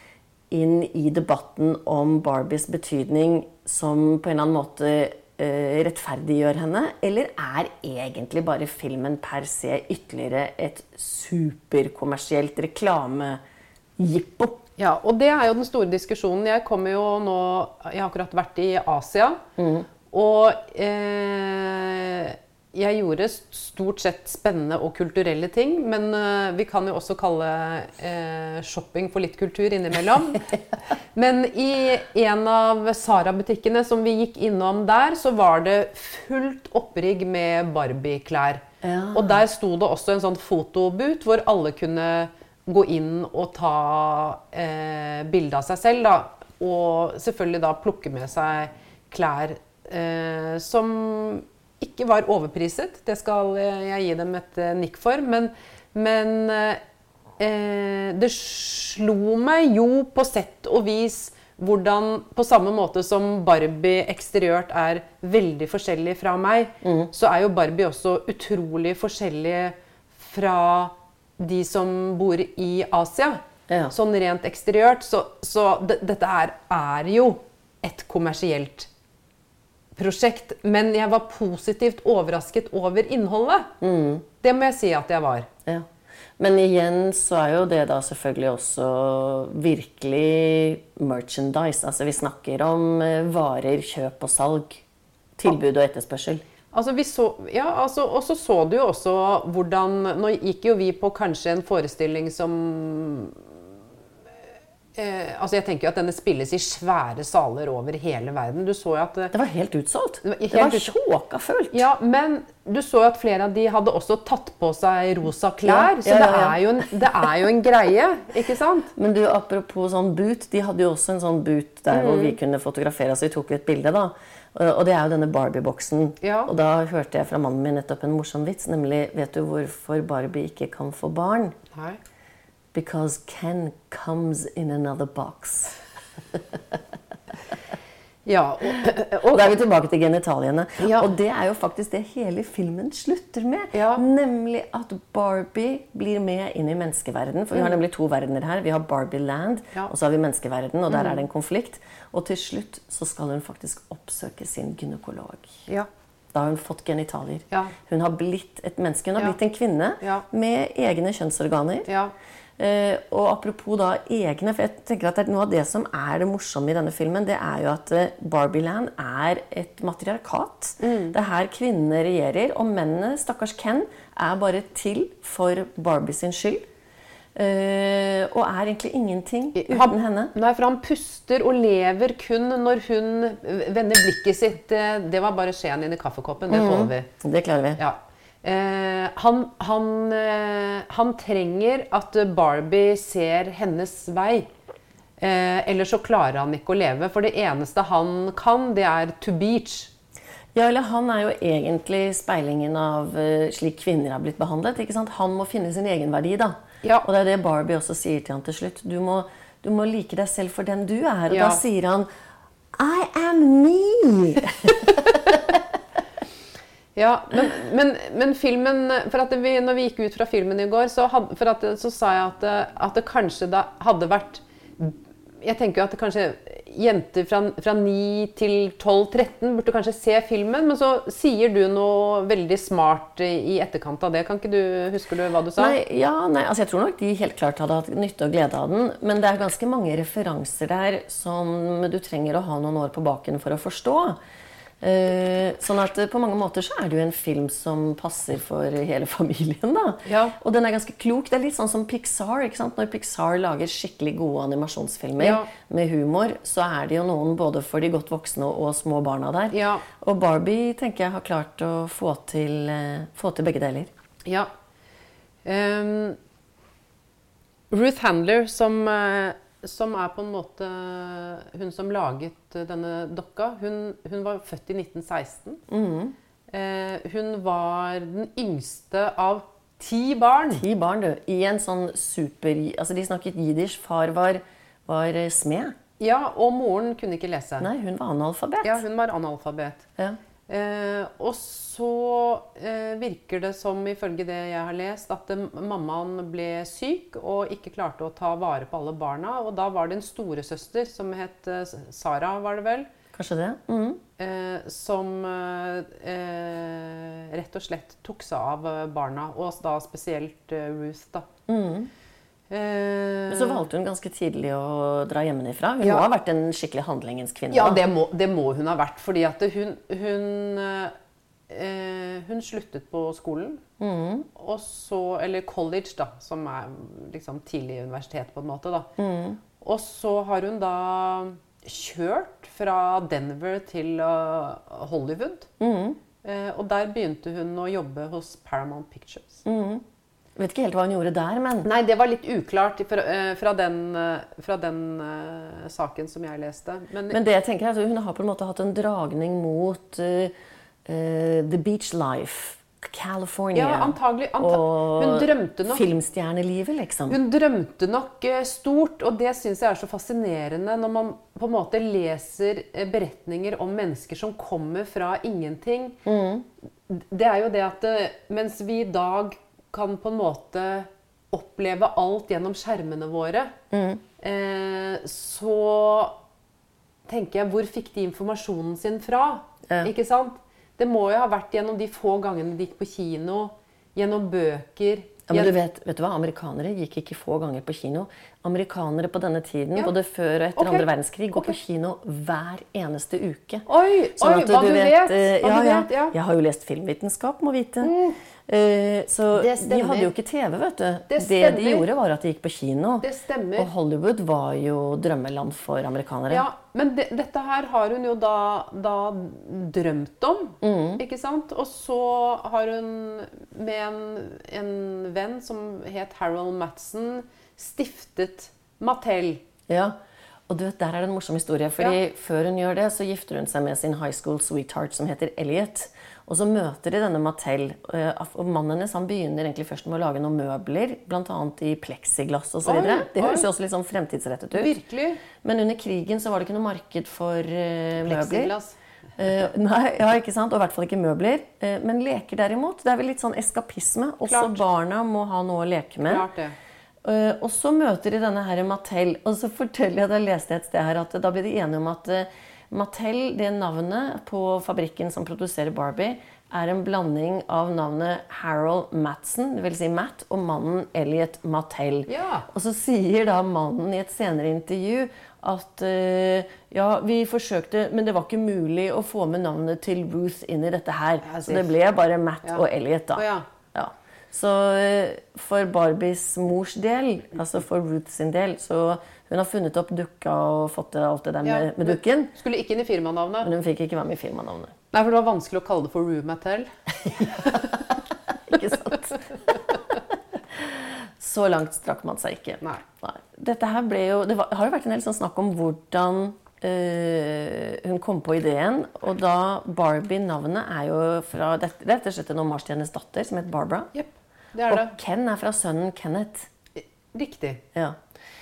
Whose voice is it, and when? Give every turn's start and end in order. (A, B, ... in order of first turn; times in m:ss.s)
0:00.5-0:13.4 A
0:14.0-0:14.6 A
0:14.8-0:19.4 B
0:19.6-0:19.8 A
0:20.1-0:56.8 B
0:38.8-0:39.4 A
0:57.4-1:18.9 B
1:06.8-1:07.1 A
1:20.0-1:23.7 B
1:23.8-1:24.2 A
1:24.4-1:25.5 B
1:26.4-1:34.8 A
1:35.4-1:36.4 A
1:36.7-1:43.5 B
1:44.9-1:49.3 B
1:49.3-1:51.9 A
1:50.2-1:50.9 B
1:51.7-1:58.9 B
1:55.6-1:56.6 A
1:59.0-2:11.6 A
2:01.9-2:02.4 B
2:06.2-2:06.5 B
2:11.7-2:12.0 B
2:12.7-2:15.8 A
2:16.3-2:16.8 A
2:18.2-2:19.5 B
2:19.3-2:35.6 A
2:20.8-2:21.1 B
2:23.7-2:24.0 B
2:30.9-2:31.2 B
2:36.3-2:41.9 A
2:41.9-2:42.1 B
2:42.6-2:56.6 A
2:50.8-2:51.1 B
2:57.3-3:00.3 A
2:59.5-3:07.1 B
3:06.5-3:07.8 A
3:07.8-3:14.4 B
3:15.2-3:19.9 B
3:20.5-3:32.1 A
3:31.3-3:31.6 B
3:32.7-3:35.6 A
3:37.0-3:55.8 B
3:55.6-4:04.2 A
4:04.8-4:23.9 A
4:10.0-4:10.3 B
4:15.2-4:15.5 B
4:19.5-4:19.8 B
4:25.4-4:26.2 B
4:27.7-4:35.6 B
4:35.7-4:36.1 A
4:36.5-4:40.6 B
4:40.5-4:45.8 A
4:46.0-4:47.7 B
4:47.6-4:48.8 A
4:48.6-4:49.8 B
4:50.5-5:02.9 B
5:03.1-5:04.0 A
5:04.2-5:11.3 B
5:11.5-5:11.9 A
5:12.5-5:13.6 B
5:13.3-5:17.8 A
5:17.5-5:20.9 B
5:21.5-5:23.6 B
5:23.8-5:24.3 A
5:24.3-5:28.9 B
5:29.0-5:29.4 A
5:29.6-5:35.5 B
5:35.6-5:36.0 A
5:36.2-5:39.4 B
5:39.4-5:39.8 A
5:40.4-5:41.7 A
5:41.6-5:47.2 B
5:47.1-5:50.3 A
5:50.8-5:57.2 A
5:53.5-5:55.9 B
5:57.1-6:06.0 B
6:06.0-6:06.4 A
6:06.9-6:13.5 B
6:13.7-6:14.0 A
6:14.2-6:16.2 B
6:17.1-6:25.5 B
6:25.3-6:33.6 A
6:30.6-6:31.5 B
6:33.7-6:36.1 B
6:34.2-6:37.9 A
6:37.8-6:38.2 B
6:38.5-6:46.4 A
6:39.3-6:40.1 B
6:41.1-6:41.8 B
6:43.0-6:43.7 B
6:46.3-6:59.4 B
6:50.6-6:51.0 A
6:59.7-6:59.9 A
7:00.5-7:14.8 A
7:12.6-7:13.5 B
7:14.5-7:15.2 B
7:15.3-7:18.5 A
7:18.0-7:18.8 B
7:19.2-7:26.3 A
7:24.3-7:24.6 B
7:26.0-7:26.6 B
7:27.0-8:02.3 A
7:42.1-7:42.5 B
7:51.2-7:51.7 B
7:53.1-7:53.4 B
8:01.4-8:03.5 B
8:03.4-8:04.7 A
8:04.9-8:07.8 B
8:07.1-8:07.9 A
8:08.4-8:09.5 A
8:08.6-8:08.9 B
8:10.5-8:23.9 A
8:23.9-8:25.0 B
8:24.7-8:26.5 A
8:26.8-8:27.6 B
8:27.7-8:28.0 A